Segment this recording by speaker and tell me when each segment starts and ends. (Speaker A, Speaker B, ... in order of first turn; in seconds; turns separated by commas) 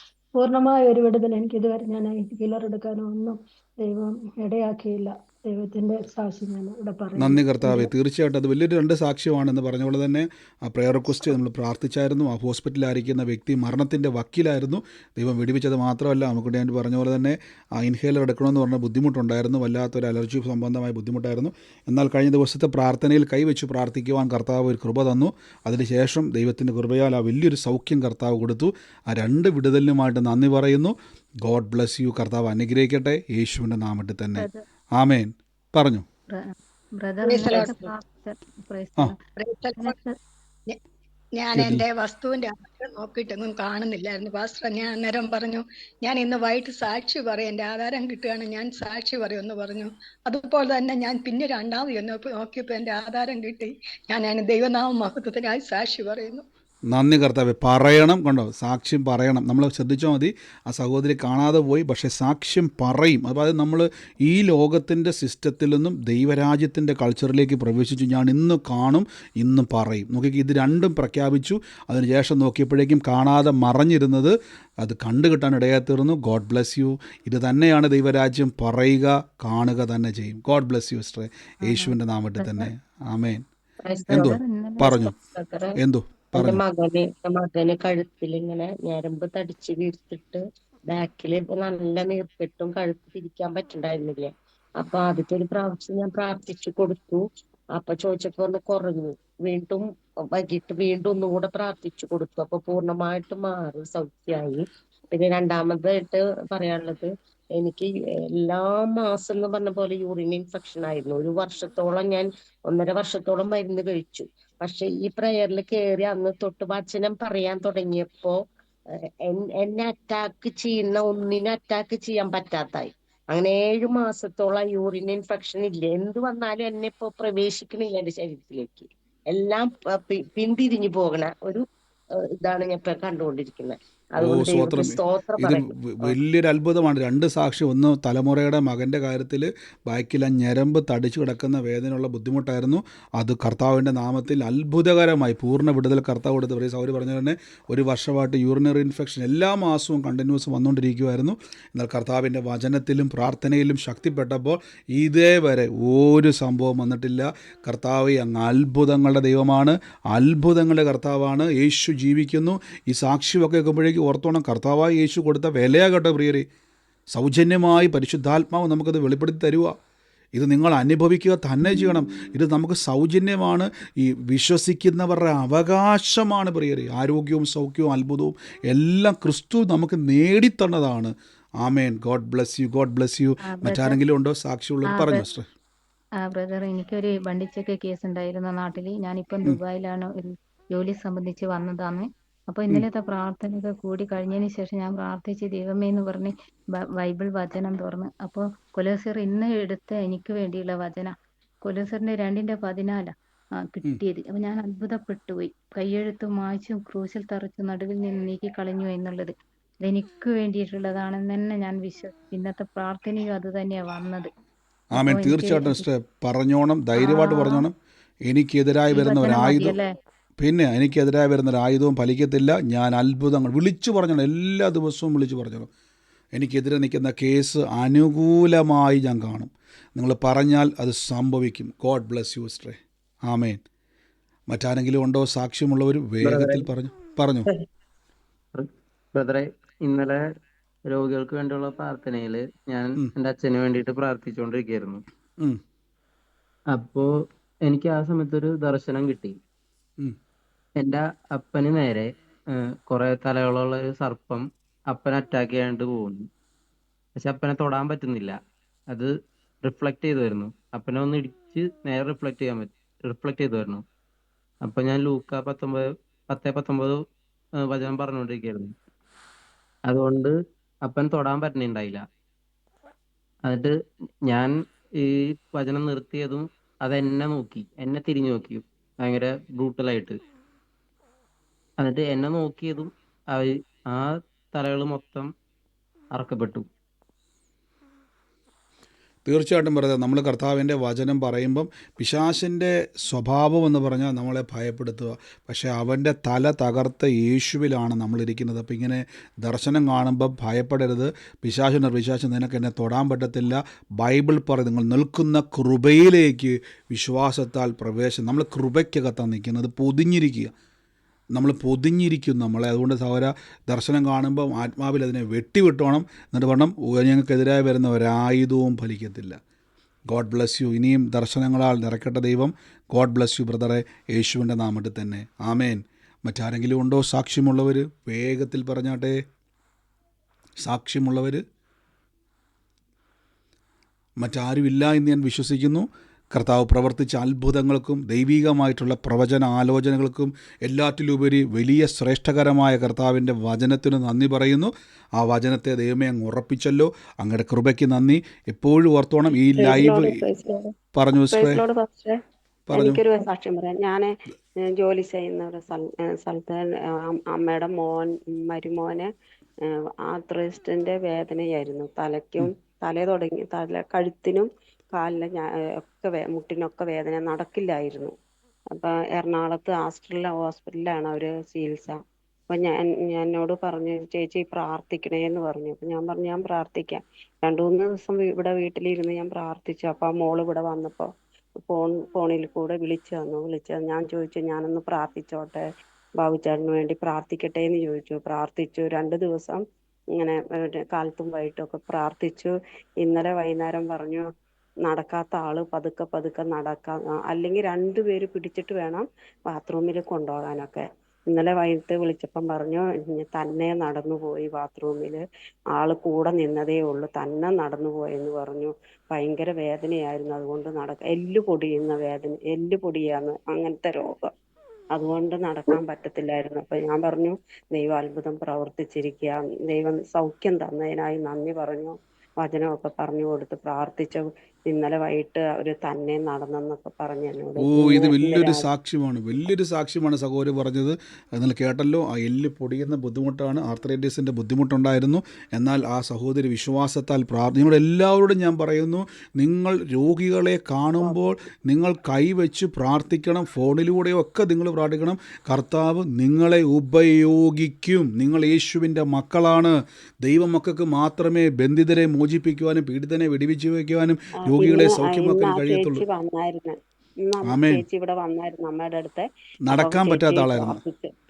Speaker A: 0.4-7.9, Speaker B: 7.2-36.0, Speaker C: 36.3-39.2, Speaker D: 37.2-37.9, Speaker D: 39.4-40.0, Speaker C: 39.8-40.1, Speaker D: 41.4-56.5, Speaker B: 41.5-41.8, Speaker B: 56.9-83.4, Speaker C: 81.7-82.7, Speaker E: 83.8-84.4, Speaker C: 83.9-85.0, Speaker B: 84.1-85.1, Speaker E: 84.9-85.8, Speaker B: 85.8-86.6, Speaker E: 86.3-97.2, Speaker E: 97.8-107.9, Speaker E: 108.4-118.4, Speaker E: 119.3-131.7, Speaker E: 132.4-136.2, Speaker B: 134.2-166.4, Speaker B: 167.1-169.7, Speaker B: 170.4-185.5, Speaker C: 183.4-184.0, Speaker C: 184.9-185.2, Speaker C: 186.3-201.1, Speaker C: 201.7-203.1, Speaker C: 203.7-209.3, Speaker C: 209.8-214.3, Speaker C: 214.9-215.8, Speaker B: 214.9-217.7, Speaker C: 217.0-217.7, Speaker B: 218.3-219.8, Speaker C: 218.9-219.9, Speaker B: 220.4-225.7, Speaker B: 226.4-233.6, Speaker B: 234.5-237.5, Speaker F: 236.2-236.7, Speaker F: 238.6-240.2, Speaker F: 240.9-245.0, Speaker F: 246.7-247.1, Speaker F: 247.7-249.4, Speaker F: 250.8-256.2, Speaker F: 257.2-258.4, Speaker F: 259.6-263.8, Speaker F: 264.6-267.0, Speaker F: 267.6-268.7, Speaker F: 269.9-270.3, Speaker F: 270.9-272.0, Speaker F: 273.5-273.7, Speaker F: 274.3-280.2, Speaker F: 281.8-285.3, Speaker F: 286.2-286.7, Speaker B: 289.2-310.5, Speaker B: 311.4-319.4, Speaker B: 320.1-329.2, Speaker B: 330.6-331.4, Speaker B: 334.2-350.2, Speaker G: 349.6-350.7, Speaker B: 350.9-351.6, Speaker G: 351.3-352.2, Speaker B: 352.7-353.0, Speaker G: 352.7-354.1, Speaker G: 354.7-359.1, Speaker G: 360.0-368.1, Speaker G: 368.7-372.0, Speaker G: 372.5-385.6, Speaker G: 386.2-389.6, Speaker G: 390.2-394.3, Speaker G: 394.9-405.2, Speaker G: 405.7-414.3, Speaker G: 414.9-428.6, Speaker B: 427.6-456.0, Speaker G: 454.5-461.1, Speaker B: 457.4-457.8, Speaker B: 459.7-460.8